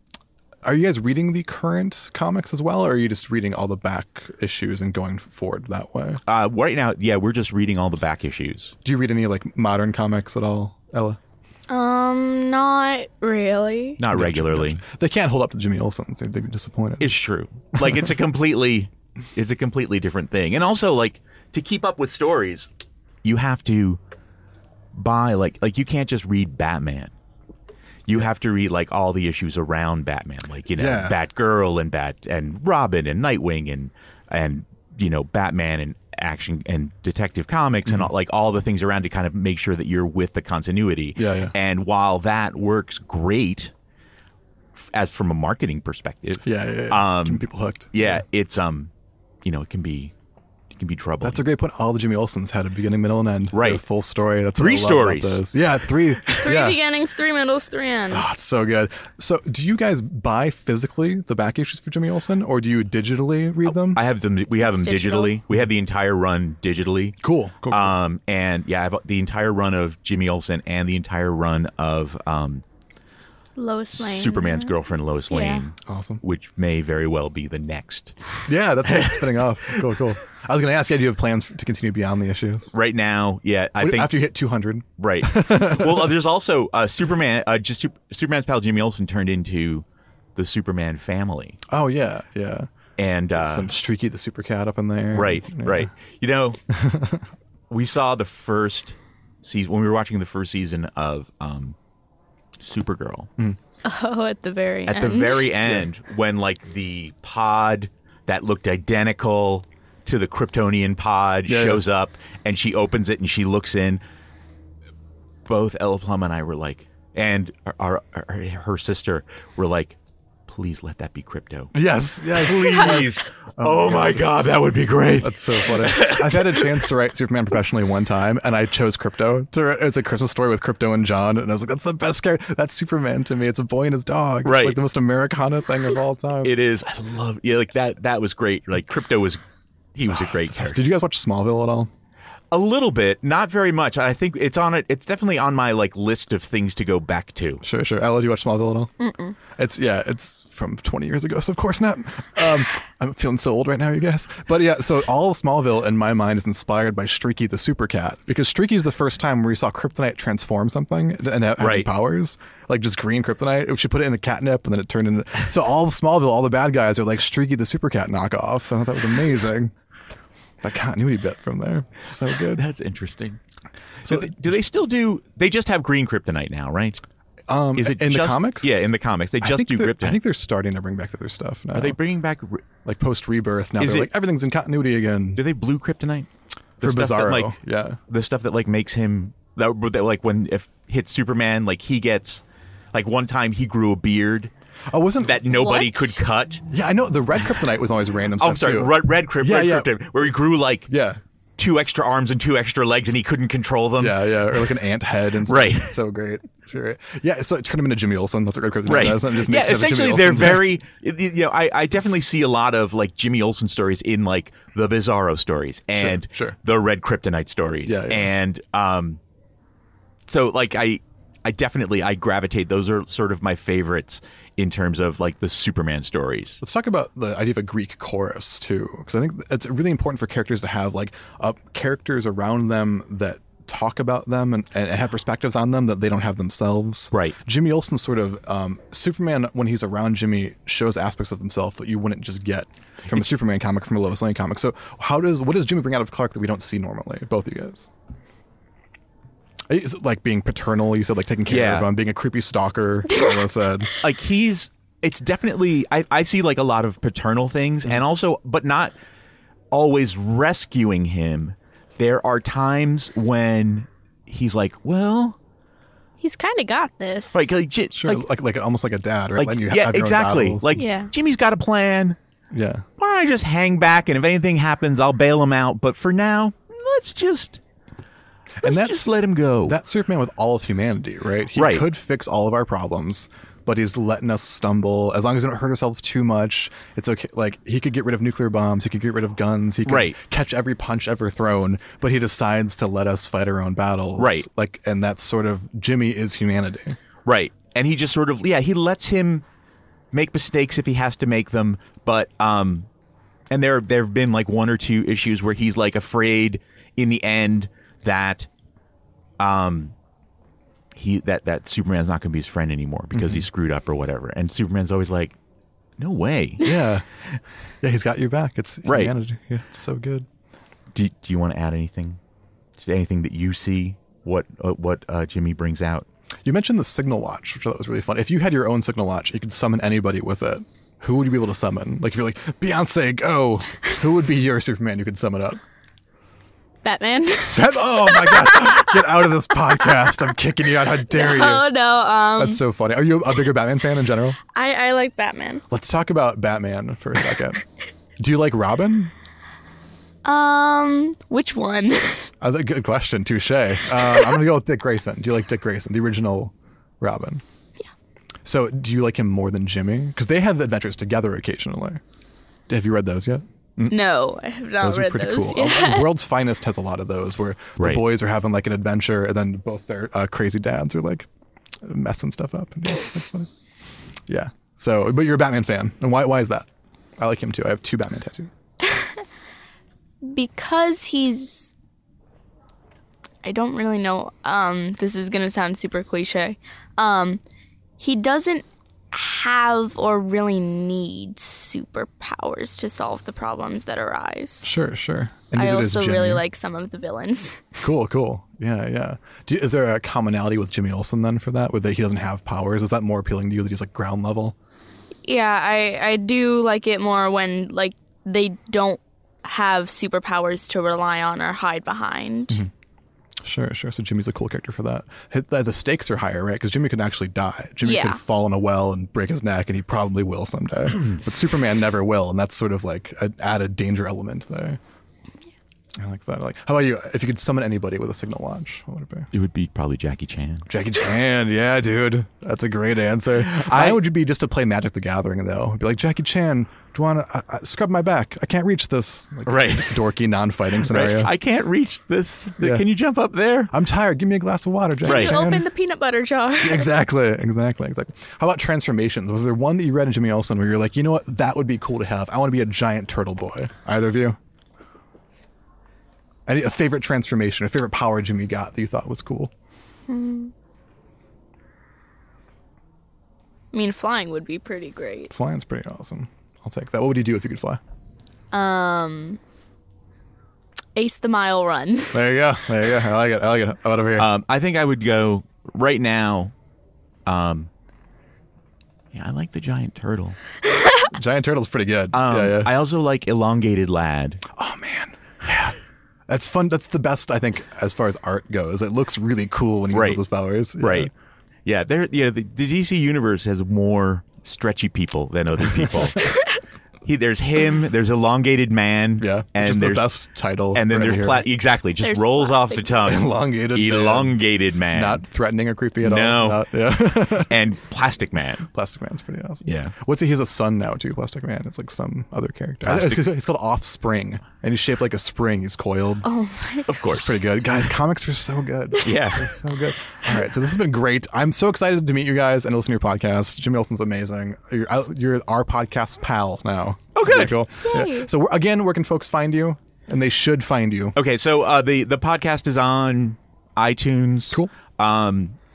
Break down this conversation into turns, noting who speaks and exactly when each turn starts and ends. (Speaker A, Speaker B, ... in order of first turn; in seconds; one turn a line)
Speaker A: 0.6-6.2
Speaker B: 6.3-8.7
Speaker A: 8.8-11.2
Speaker C: 11.7-14.0
Speaker B: 14.0-14.8
Speaker A: 14.1-17.2
Speaker B: 17.0-22.7
Speaker B: 23.2-24.0
Speaker B: 24.9-27.1
Speaker B: 28.1-43.7
Speaker A: 30.8-31.2
Speaker A: 41.2-41.5
Speaker B: 44.8-48.9
Speaker A: 46.5-48.2
Speaker B: 49.4-50.1
Speaker B: 50.7-51.5
Speaker A: 51.2-56.8
Speaker B: 53.5-53.8
Speaker B: 54.6-55.5
Speaker B: 56.3-56.5
Speaker C: 56.4-58.4
Speaker A: 58.1-64.0
Speaker B: 63.7-67.2
Speaker C: 64.6-65.4
Speaker A: 67.2-68.0
Speaker B: 67.7-72.6
Speaker C: 73.6-74.8
Speaker B: 74.0-78.2
Speaker C: 75.3-75.6
Speaker A: 75.9-76.2
Speaker A: 78.5-82.7
Speaker B: 78.8-80.0
Speaker B: 82.7-84.2
Speaker A: 83.8-86.1
Speaker B: 85.0-89.8
Speaker B: 90.4-91.6
Speaker A: 91.7-92.7
Speaker B: 93.0-93.7
Speaker A: 93.3-95.9
Speaker B: 95.1-96.6
Speaker A: 96.7-97.2
Speaker B: 97.7-101.8
Speaker B: 102.6-103.3
Speaker C: 103.8-105.5
Speaker B: 104.9-114.0
Speaker A: 111.5-111.8
Speaker B: 115.5-121.7
Speaker A: 121.7-124.2
Speaker B: 122.3-126.9
Speaker A: 125.2-136.6
Speaker B: 134.4-134.8
Speaker B: 136.4-139.4
Speaker B: 139.9-140.8
Speaker A: 140.1-141.9
Speaker B: 142.5-147.6
Speaker A: 147.6-148.9
Speaker C: 149.1-149.3
Speaker A: 149.6-169.7
Speaker B: 161.6-161.9
Speaker A: 170.6-172.6
Speaker B: 172.5-173.4
Speaker A: 174.1-174.4
Speaker B: 174.1-177.0
Speaker A: 177.5-178.9
Speaker B: 177.8-180.2
Speaker A: 179.4-182.0
Speaker B: 181.8-182.7
Speaker A: 182.8-185.4
Speaker B: 183.8-184.1
Speaker B: 185.4-186.3
Speaker B: 186.8-194.5
Speaker A: 186.8-188.0
Speaker A: 194.9-195.4
Speaker B: 195.2-196.6
Speaker C: 195.5-196.2
Speaker A: 196.7-200.0
Speaker B: 198.4-200.9
Speaker A: 200.9-201.2
Speaker B: 201.6-204.8
Speaker A: 204.0-210.7
Speaker B: 205.5-206.0
Speaker B: 208.9-219.2
Speaker A: 215.9-216.6
Speaker A: 217.9-218.3
Speaker B: 220.3-226.6
Speaker A: 226.6-247.9
Speaker B: 243.1-243.4
Speaker A: 249.7-253.9
Speaker B: 251.5-251.9
Speaker C: 253.1-253.4
Speaker B: 254.0-258.9
Speaker B: 259.7-265.4
Speaker C: 266.2-267.5
Speaker B: 267.3-268.3
Speaker A: 267.9-270.8
Speaker B: 269.4-272.2
Speaker C: 270.7-271.1
Speaker A: 272.5-272.9
Speaker B: 273.0-277.6
Speaker A: 278.6-297.0
Speaker B: 278.6-279.8
Speaker B: 281.6-281.9
Speaker B: 289.9-290.2
Speaker B: 294.2-294.5
Speaker B: 297.3-299.4
Speaker B: 300.1-302.9
Speaker B: 303.5-308.5
Speaker B: 309.4-309.9
Speaker B: 310.9-315.4
Speaker A: 313.1-313.4
Speaker B: 316.0-316.8
Speaker A: 316.6-317.1
Speaker A: 317.8-320.3
Speaker B: 318.9-319.1
Speaker B: 320.9-322.2
Speaker B: 322.8-326.1
Speaker A: 326.4-335.6
Speaker C: 336.8-340.3
Speaker A: 337.5-341.7
Speaker C: 341.1-342.6
Speaker A: 342.4-344.4
Speaker C: 344.5-345.6
Speaker A: 345.7-347.6
Speaker A: 348.2-349.1
Speaker C: 350.2-352.3
Speaker A: 352.4-357.4
Speaker A: 358.4-362.0
Speaker A: 362.7-363.4
Speaker C: 363.9-366.1
Speaker A: 364.8-371.3
Speaker B: 367.8-368.1
Speaker A: 371.9-373.5
Speaker A: 374.3-376.7
Speaker A: 377.2-378.5
Speaker C: 378.9-379.2
Speaker C: 380.2-381.7
Speaker C: 383.4-387.4
Speaker C: 388.0-394.7
Speaker A: 394.6-396.4
Speaker C: 395.6-397.6
Speaker A: 397.8-404.6
Speaker C: 405.2-412.6
Speaker A: 413.4-424.8
Speaker C: 417.8-418.2
Speaker A: 426.0-429.3
Speaker B: 429.3-430.7
Speaker A: 430.7-441.3
Speaker B: 433.4-434.0
Speaker B: 439.5-440.0
Speaker B: 440.8-443.7
Speaker A: 442.6-442.9
Speaker A: 443.7-445.6
Speaker C: 445.0-446.9
Speaker B: 445.0-445.5
Speaker A: 446.6-454.4
Speaker A: 456.5-459.5
Speaker C: 460.1-460.5
Speaker C: 463.7-465.3
Speaker A: 465.3-467.8
Speaker C: 468.5-469.4
Speaker C: 470.9-472.2
Speaker A: 472.1-474.3
Speaker B: 474.2-476.5
Speaker B: 477.3-477.7
Speaker B: 479.1-480.4
Speaker A: 481.1-482.7
Speaker B: 482.1-484.4
Speaker A: 484.5-485.8
Speaker A: 486.3-491.1
Speaker B: 489.9-490.2
Speaker B: 490.8-491.1
Speaker B: 491.6-496.3
Speaker B: 497.0-500.1
Speaker A: 499.2-501.5
Speaker B: 500.7-505.2
Speaker C: 502.0-502.9
Speaker A: 503.0-504.4
Speaker A: 504.9-507.5
Speaker B: 506.0-506.7
Speaker B: 507.3-508.7
Speaker A: 508.7-516.3
Speaker B: 509.7-509.9
Speaker B: 512.8-513.3
Speaker C: 516.2-517.1
Speaker B: 516.9-517.4
Speaker A: 517.1-531.2
Speaker B: 519.0-519.6
Speaker B: 527.1-527.6
Speaker C: 527.8-528.3
Speaker B: 531.2-535.6